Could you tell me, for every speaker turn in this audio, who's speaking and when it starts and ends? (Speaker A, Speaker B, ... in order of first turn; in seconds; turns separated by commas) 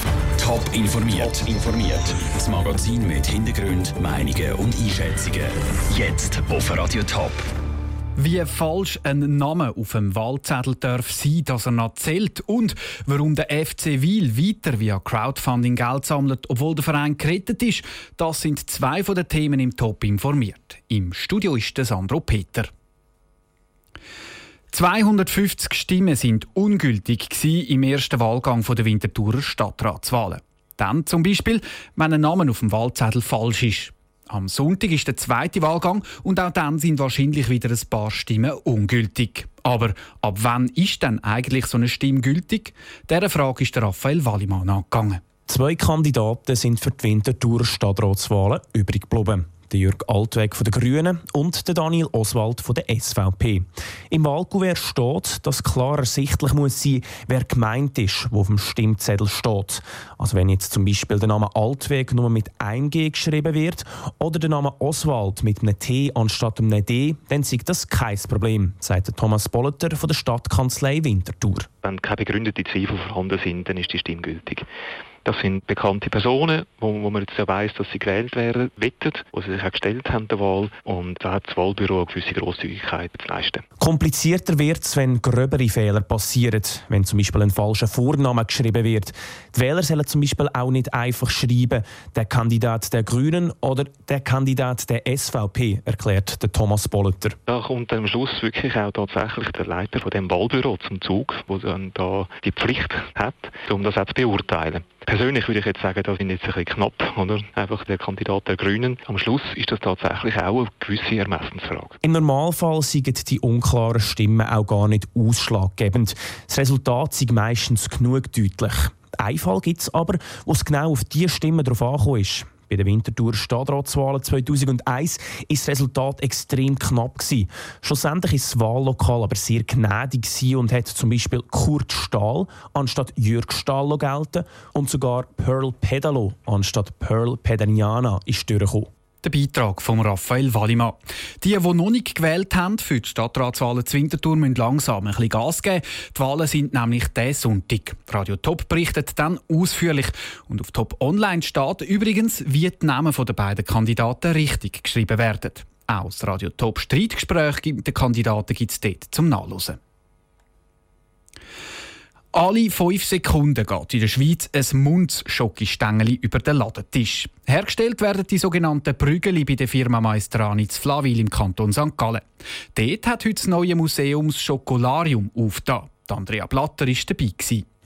Speaker A: 0.4-7.4, Speaker B: 8.2-22.7, Speaker B: 24.7-45.2, Speaker C: 45.5-71.7, Speaker D: 71.8-74.7, Speaker D: 75.2-83.6, Speaker C: 83.8-97.4, Speaker D: 97.5-112.0, Speaker C: 112.0-138.9, Speaker B: 139.2-159.8, Speaker B: 162.3-177.6